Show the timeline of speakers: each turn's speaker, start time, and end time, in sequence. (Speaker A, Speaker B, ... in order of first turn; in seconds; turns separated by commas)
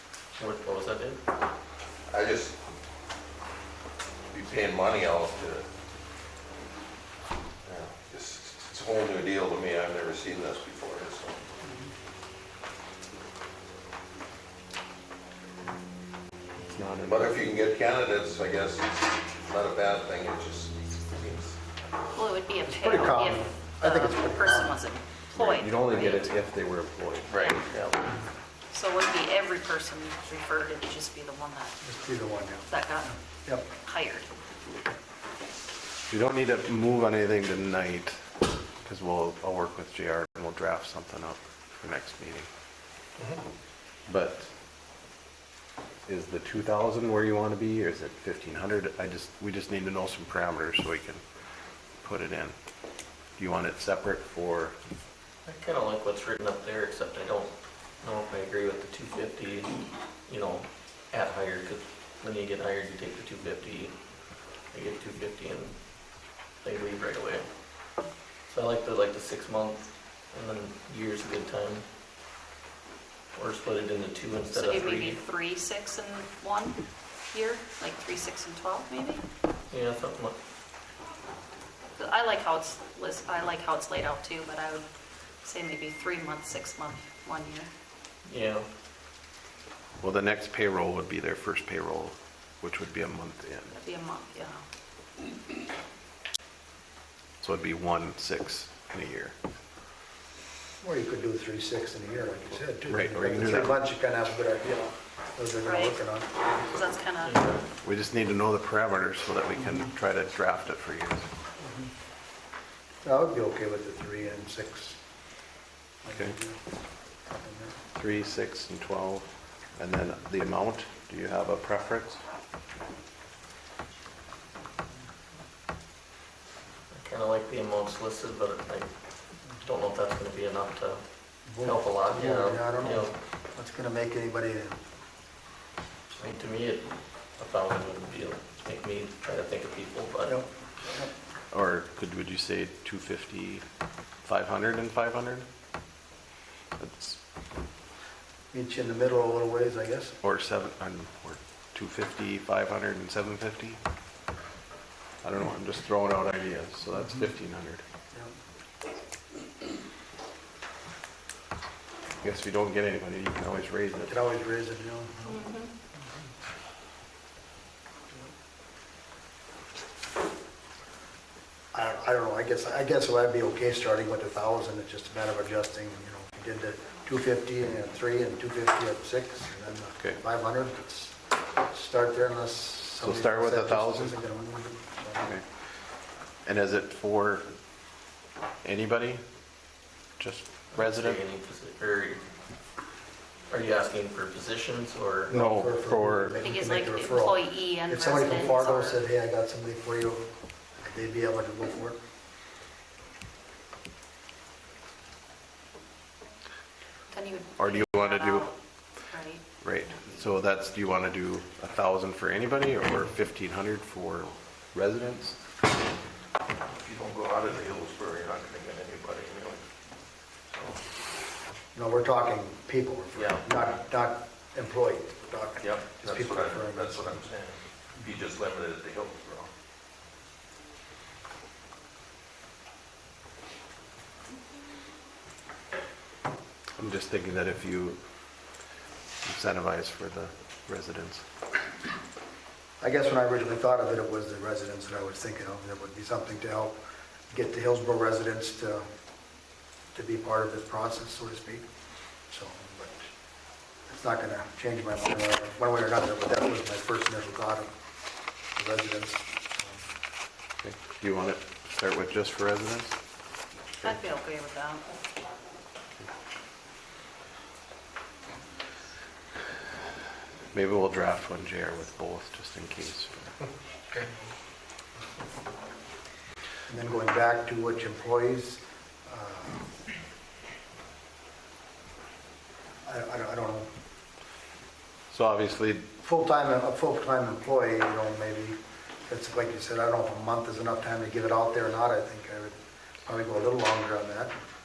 Speaker A: 0.3-1.2, Speaker B: 2.1-2.6, Speaker B: 4.3-5.7, Speaker B: 7.6-11.4, Speaker C: 16.6-17.5, Speaker B: 17.1-21.5, Speaker D: 22.1-26.4, Speaker E: 22.6-24.8, Speaker C: 25.3-27.6, Speaker A: 27.3-28.0, Speaker D: 28.7-31.8, Speaker E: 31.8-33.7, Speaker D: 32.7-33.2, Speaker D: 33.8-34.3, Speaker C: 36.1-38.2, Speaker C: 38.8-42.5, Speaker C: 44.1-44.5, Speaker C: 46.0-51.2, Speaker C: 52.0-52.5, Speaker C: 53.4-54.7, Speaker A: 55.4-59.7, Speaker A: 60.3-63.9, Speaker A: 64.7-65.7, Speaker A: 66.6-67.5, Speaker A: 68.5-71.8, Speaker A: 73.3-75.2, Speaker D: 74.5-76.8, Speaker D: 77.3-79.2, Speaker A: 79.7-80.3, Speaker D: 82.0-84.8, Speaker D: 85.4-87.7, Speaker A: 88.2-88.7, Speaker C: 90.0-93.7, Speaker D: 93.7-94.6, Speaker C: 97.4-99.3, Speaker E: 100.8-106.3, Speaker C: 102.8-103.8, Speaker D: 105.6-106.0, Speaker D: 106.6-107.4, Speaker A: 107.2-107.7, Speaker C: 107.8-111.3, Speaker E: 113.0-115.0, Speaker E: 116.0-116.6, Speaker E: 117.2-117.8, Speaker C: 117.9-122.2, Speaker A: 126.9-128.9, Speaker A: 129.6-131.0, Speaker E: 131.4-134.8, Speaker A: 131.6-133.1, Speaker A: 136.2-140.3, Speaker E: 140.2-141.1, Speaker C: 141.5-143.6, Speaker C: 144.2-145.4, Speaker C: 146.8-147.2, Speaker E: 148.5-150.2, Speaker C: 150.2-153.8, Speaker C: 155.2-157.8, Speaker C: 162.2-164.1, Speaker E: 164.1-165.3, Speaker D: 165.2-165.7, Speaker E: 171.7-185.3, Speaker C: 182.9-184.2, Speaker C: 185.2-185.4, Speaker C: 186.4-187.5, Speaker C: 188.6-189.2, Speaker C: 190.2-191.2, Speaker A: 190.7-192.2, Speaker A: 193.5-195.3, Speaker E: 195.3-200.2, Speaker C: 195.3-196.4, Speaker D: 196.4-199.0, Speaker E: 200.8-202.0, Speaker D: 207.1-208.6, Speaker C: 207.6-208.5, Speaker D: 209.1-209.4, Speaker C: 209.6-215.4, Speaker B: 216.8-219.6, Speaker E: 221.7-227.1, Speaker A: 223.2-223.4, Speaker B: 226.0-229.4, Speaker C: 236.8-238.0, Speaker C: 239.2-241.2, Speaker E: 242.8-246.8, Speaker E: 247.3-248.8, Speaker E: 249.9-251.6, Speaker E: 252.3-253.1, Speaker E: 253.9-257.7, Speaker E: 258.6-259.8, Speaker C: 260.6-263.0, Speaker D: 263.8-264.8, Speaker C: 270.5-273.3, Speaker E: 276.7-279.6, Speaker E: 282.8-283.7, Speaker C: 285.1-285.9, Speaker E: 286.0-292.5, Speaker E: 293.1-294.3